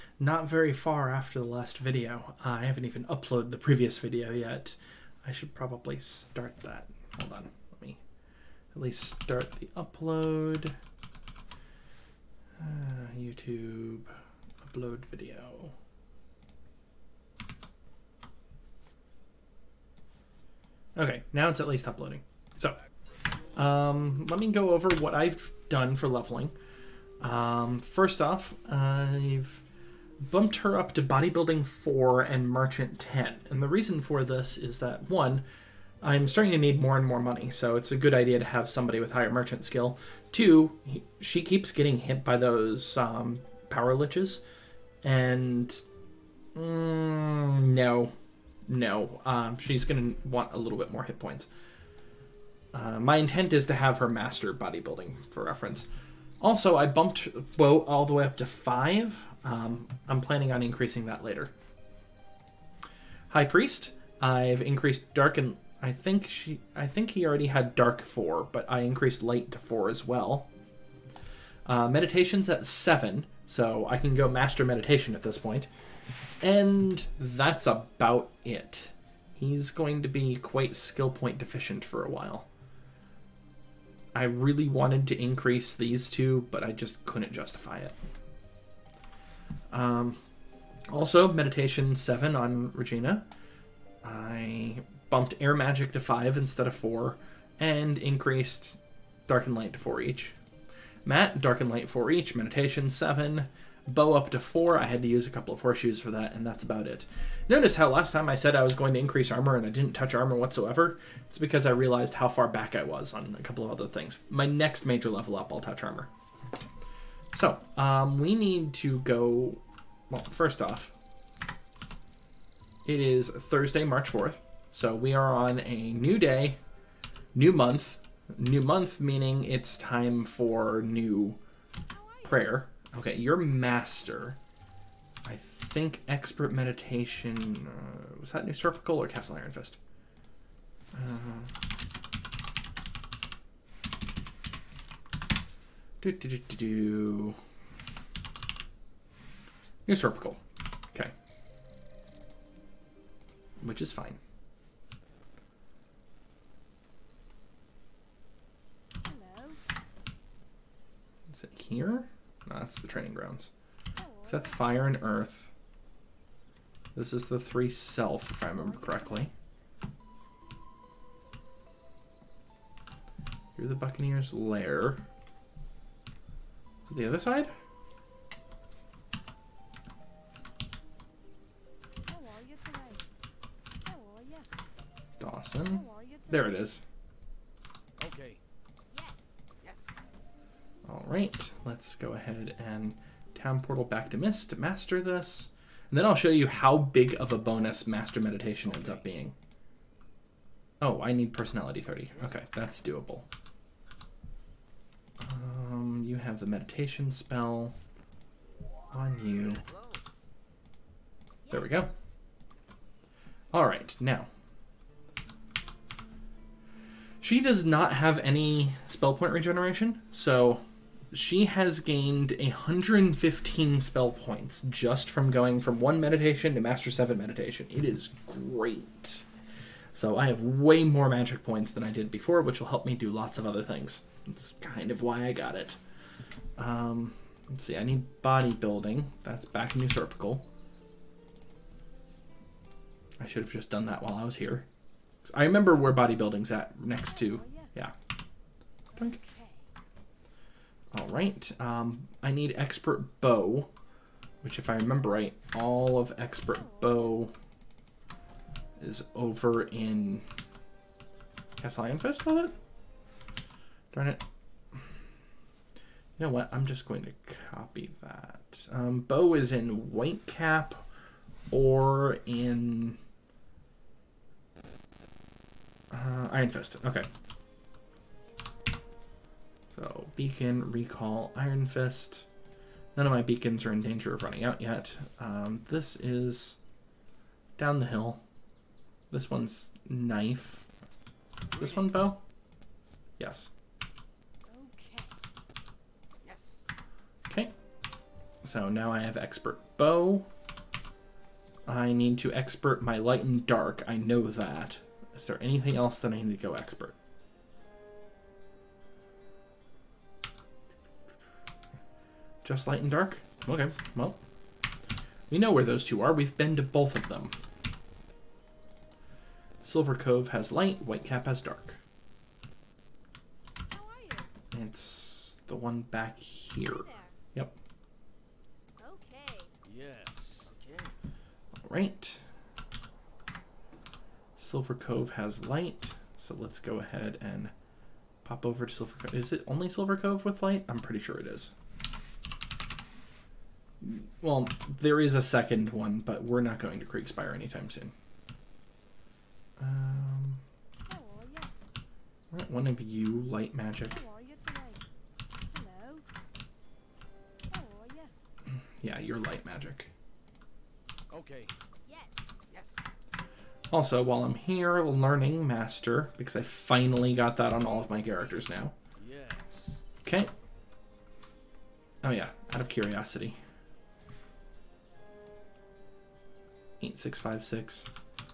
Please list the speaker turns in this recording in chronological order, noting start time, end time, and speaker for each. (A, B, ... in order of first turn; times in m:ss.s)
0:00.2-0:08.0 A
0:08.7-0:10.8 A
0:12.6-0:15.7 A
0:21.0-0:22.8 A
0:23.5-0:26.5 A
0:27.2-0:29.6 A
0:30.3-0:35.4 A
0:36.0-0:44.4 A
0:45.0-0:45.8 A
0:46.6-0:48.1 A
0:48.7-0:51.5 A
0:52.7-0:55.9 A
0:56.4-1:01.5 A
1:03.3-1:10.5 A
1:11.7-1:15.7 A
1:16.4-1:22.5 A
1:24.2-1:28.0 A
1:29.7-1:30.2 A
1:30.9-1:33.3 A
1:34.0-1:40.4 A
1:41.0-1:56.1 A
1:57.3-2:00.9 A
2:02.8-2:06.6 A
2:07.4-2:11.4 A
2:11.9-2:12.6 B
2:12.2-2:14.4 A
2:15.2-2:19.8 A
2:20.9-2:21.5 A
2:26.0-2:27.4 A
2:29.8-2:30.4 A
2:33.6-2:34.2 A
2:39.0-2:39.6 B
2:41.3-2:43.5 A
2:44.0-2:44.6 B
2:44.2-2:45.5 A
2:46.9-2:49.3 A
2:48.5-2:49.3 B
2:53.6-2:55.0 A
2:56.8-2:57.5 A
3:02.0-3:03.0 B
3:03.8-3:04.5 B
3:05.2-3:06.8 A
3:05.6-3:06.7 B
3:08.0-3:08.4 C
3:08.9-3:09.3 B
3:09.6-3:10.0 C
3:10.8-3:19.3 A
3:18.7-3:19.0 C
3:20.8-3:23.3 A
3:25.2-3:27.8 A
3:28.9-3:29.6 A
3:29.6-3:30.0 C
3:31.4-3:31.9 B
3:31.5-3:31.9 A
3:33.5-3:34.3 A
3:37.2-3:49.2 A
3:49.9-3:55.8 A
3:56.6-4:00.4 A
4:03.2-4:04.7 A
4:05.2-4:07.9 A
4:07.1-4:07.7 B
4:08.9-4:09.6 B
4:10.9-4:13.7 A
4:14.4-4:17.3 A
4:16.5-4:17.0 B
4:18.8-4:20.2 A
4:21.6-4:22.6 A
4:23.9-4:24.2 A
4:26.2-4:30.8 A
4:31.5-4:33.0 A
4:35.9-4:37.1 A
4:39.7-4:42.3 A
4:42.9-4:46.6 A
4:47.6-4:48.2 A
4:49.1-4:50.7 A
4:51.5-4:51.9 C
4:51.6-4:52.2 A
4:53.2-4:53.5 A
4:54.5-4:55.2 B
4:56.2-4:56.6 C
4:57.3-4:57.5 A
4:58.4-5:00.3 A
5:01.7-5:07.0 A
5:12.4-5:14.2 A
5:15.3-5:17.4 A
5:19.6-5:21.8 A
5:23.7-5:24.3 B
5:24.5-5:27.6 A
5:26.6-5:27.2 B
5:28.8-5:29.5 B
5:29.6-5:30.9 C
5:31.6-5:32.2 A
5:34.4-5:37.5 A
5:38.2-5:41.5 A
5:43.8-5:47.9 A
5:49.6-5:50.4 A
5:50.9-5:51.5 B
5:52.3-5:54.0 A
5:53.9-5:54.8 B
5:55.5-5:56.0 B
5:57.5-5:58.1 B
5:58.8-5:59.9 A
6:01.1-6:01.5 C
6:01.8-6:02.3 B
6:02.5-6:02.9 C
6:03.7-6:08.7 A
6:07.6-6:08.4 B
6:09.0-6:09.8 C
6:10.0-6:10.3 A
6:12.0-6:13.4 A
6:16.8-6:17.9 A